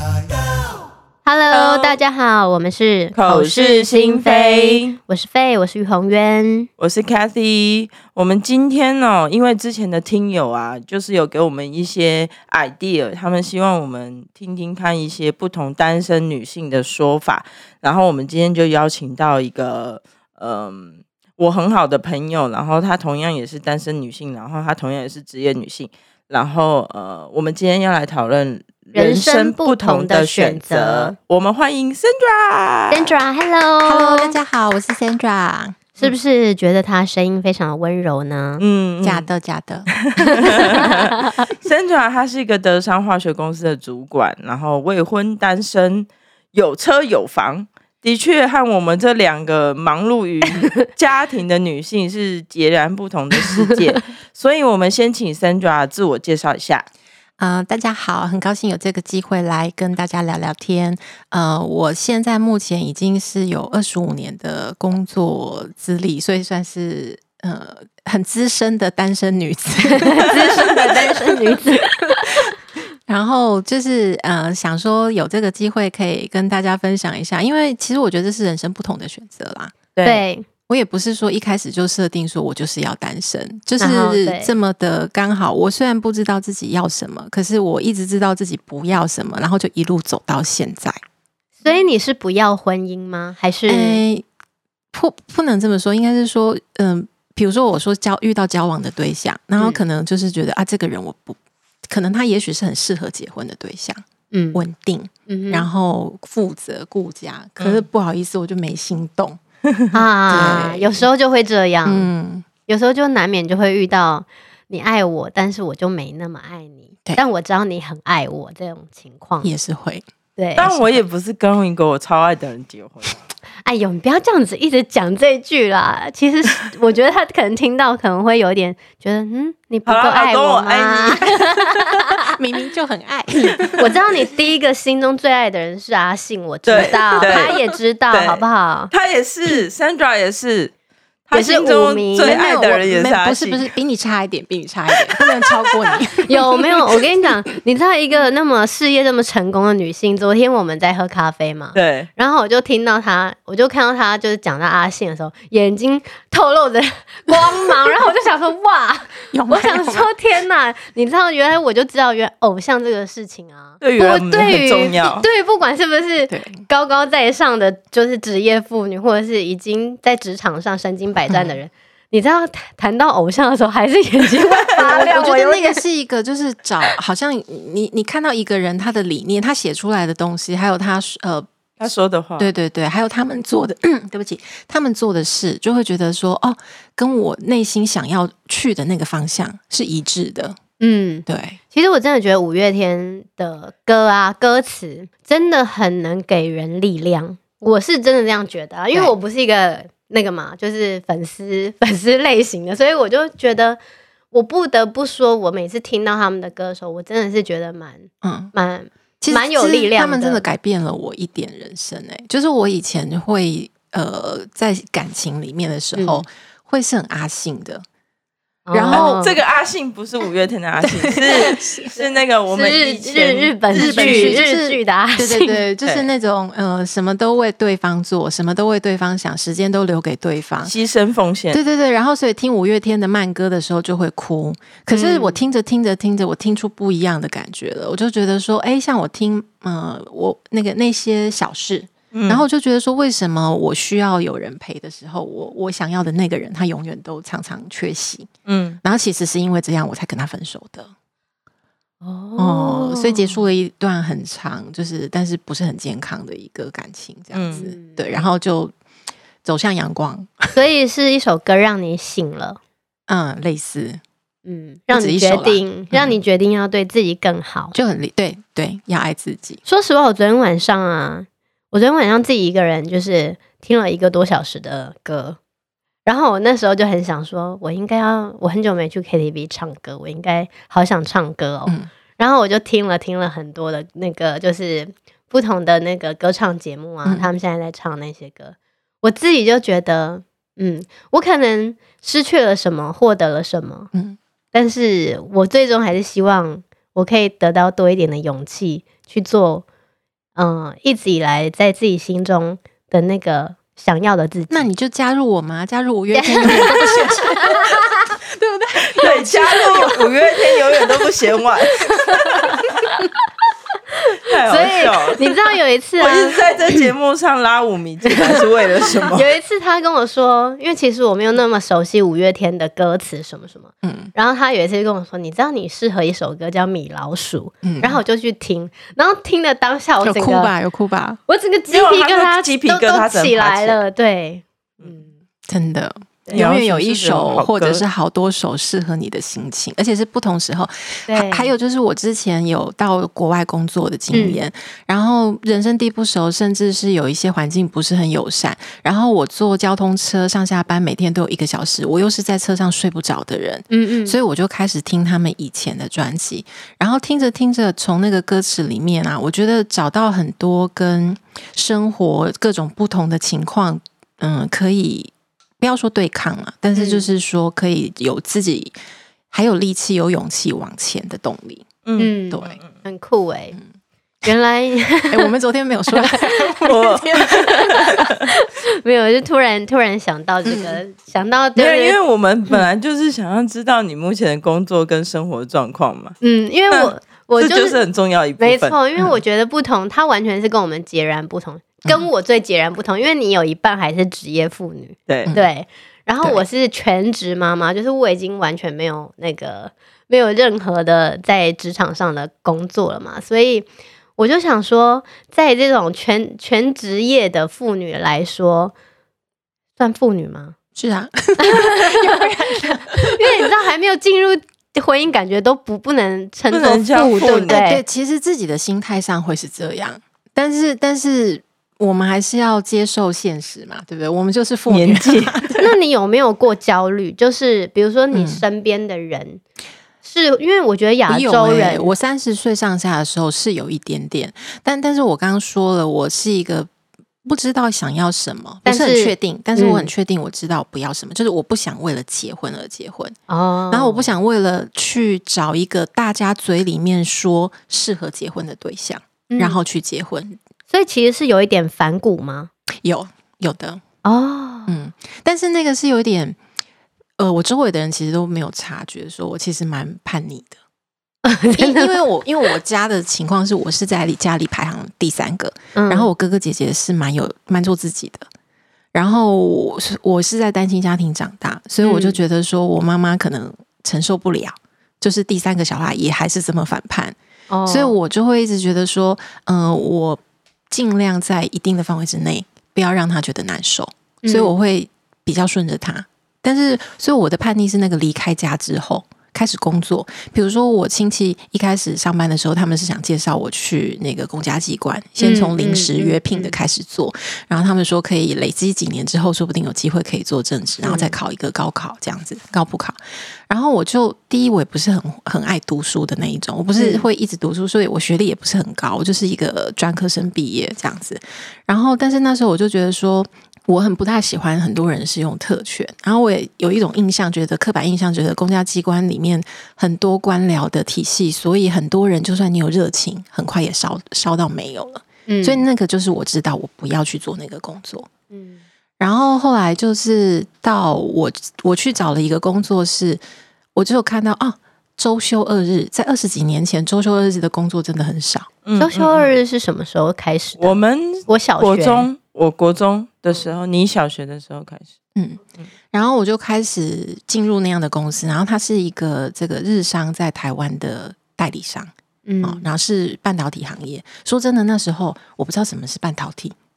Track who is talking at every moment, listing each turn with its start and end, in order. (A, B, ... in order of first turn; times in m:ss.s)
0:01.2-0:06.7 A
0:01.5-0:02.0 B
0:03.2-0:05.0 B
0:06.8-0:33.2 B
0:28.9-0:31.1 A
0:32.9-0:34.4 A
0:33.8-0:35.8 C
0:36.0-0:38.6 A
0:38.6-0:39.3 B
0:39.0-0:40.8 C
0:40.0-0:56.9 B
0:40.2-0:41.5 A
0:57.4-1:11.1 C
1:09.8-1:12.5 A
1:12.3-1:12.5 C
1:13.1-1:19.8 C
1:20.0-1:20.2 B
1:20.0-1:20.5 A
1:20.7-1:31.0 C
1:23.8-1:24.5 A
1:31.6-1:34.0 A
1:33.7-1:34.2 C
1:34.9-1:41.4 C
1:41.9-1:49.4 C
1:44.3-1:44.6 A
1:45.3-1:45.7 A
1:47.6-1:47.9 B
1:49.9-1:52.1 A
1:50.3-1:51.1 C
1:51.8-1:52.4 C
1:52.7-1:59.5 A
1:59.4-2:00.0 C
2:00.4-2:00.7 A
2:00.6-2:03.2 B
2:00.6-2:01.0 C
2:03.6-2:12.3 A
2:09.9-2:11.8 B
2:12.2-2:14.0 C
2:13.7-2:18.9 A
2:16.7-2:20.7 B
2:16.8-2:17.5 C
2:21.3-2:23.7 B
2:21.3-2:22.4 A
2:22.2-2:26.6 C
2:24.9-2:25.7 B
2:26.2-2:55.8 A
2:31.7-2:32.1 B
2:39.3-2:40.1 C
2:43.8-2:45.3 B
2:46.3-2:46.6 C
2:51.3-2:51.6 C
2:54.8-3:01.5 C
2:54.8-2:55.3 B
3:01.8-3:02.5 B
3:02.4-3:10.6 C
3:10.8-3:23.8 A
3:11.3-3:11.6 C
3:24.3-3:30.4 A
3:28.2-3:28.5 C
3:29.2-3:37.8 C
3:36.0-3:36.2 A
3:38.7-3:39.4 A
3:38.7-3:39.2 C
3:38.9-3:44.4 B
3:40.8-3:42.0 C
3:42.5-3:45.6 A
3:43.8-3:50.7 C
3:50.6-3:51.6 B
3:51.5-4:08.3 C
3:54.9-3:55.4 A
4:02.1-4:02.5 B
4:08.5-4:08.8 B
4:08.8-4:10.9 C
4:12.0-4:13.4 A
4:12.4-4:18.7 C
4:17.3-4:17.7 B
4:17.5-4:18.2 A
4:19.4-4:20.6 C
4:20.6-4:22.6 A
4:23.1-4:24.0 C
4:24.4-4:27.7 A
4:24.9-4:26.2 C
4:27.7-4:29.6 C
4:29.6-4:35.4 A
4:36.1-4:53.9 A
4:53.9-4:54.2 C
4:54.5-4:59.7 A
5:00.4-5:04.7 A
5:04.5-5:10.1 C
5:06.1-5:08.1 A
5:08.8-5:12.0 B
5:11.8-5:12.8 A
5:14.0-5:16.9 A
5:14.2-5:15.3 B
5:16.0-5:19.3 B
5:18.0-5:30.5 A
5:23.8-5:24.1 C
5:27.6-5:28.0 C
5:30.0-5:31.2 C
5:31.3-5:35.1 A
5:31.7-5:33.8 B
5:35.5-6:08.8 C
5:36.3-5:37.8 B
5:41.1-5:41.5 A
5:44.1-5:44.4 A
5:53.7-5:54.2 A
6:06.8-6:07.1 A
6:09.3-6:11.7 C
6:11.8-6:12.7 B
6:12.0-6:13.6 A
6:12.3-6:12.6 C
6:14.2-6:15.3 A
6:15.1-6:17.5 C
6:15.9-6:22.0 A
6:16.6-6:18.2 B
6:20.4-6:20.8 C
6:21.6-6:26.2 B
6:26.2-6:27.8 A
6:26.7-6:28.8 B
6:28.4-6:48.7 A
6:35.1-6:35.4 B
6:49.8-6:50.6 A
6:50.8-6:53.5 C
6:51.4-6:57.8 A
6:56.5-6:57.6 B
6:57.3-7:05.7 C
7:04.7-7:05.4 B
7:05.6-7:09.4 A
7:08.1-7:08.4 C
7:10.0-7:11.9 A
7:11.1-7:16.7 C
7:17.2-7:23.2 C
7:18.7-7:19.9 A
7:23.3-7:24.1 A
7:23.7-7:30.4 C
7:29.3-7:29.6 A
7:30.7-7:32.5 A
7:32.8-7:33.8 C
7:34.0-7:34.8 A
7:34.7-7:36.4 C
7:37.2-7:40.6 C
7:41.2-7:42.0 A
7:41.5-7:48.3 C
7:45.8-7:46.1 A
7:48.9-8:48.1 C
7:51.8-7:52.2 A
7:57.5-7:58.0 A
8:04.2-8:04.5 A
8:15.2-8:16.5 A
8:20.8-8:21.1 A
8:26.8-8:27.0 A
8:45.3-8:45.6 A
8:48.3-8:48.6 A
8:49.0-8:53.2 C
8:53.8-8:58.5 C
8:58.6-8:59.4 B
8:58.8-9:00.8 A
9:00.6-9:05.0 B
9:01.3-9:02.1 A
9:05.1-9:16.5 C
9:12.2-9:12.6 A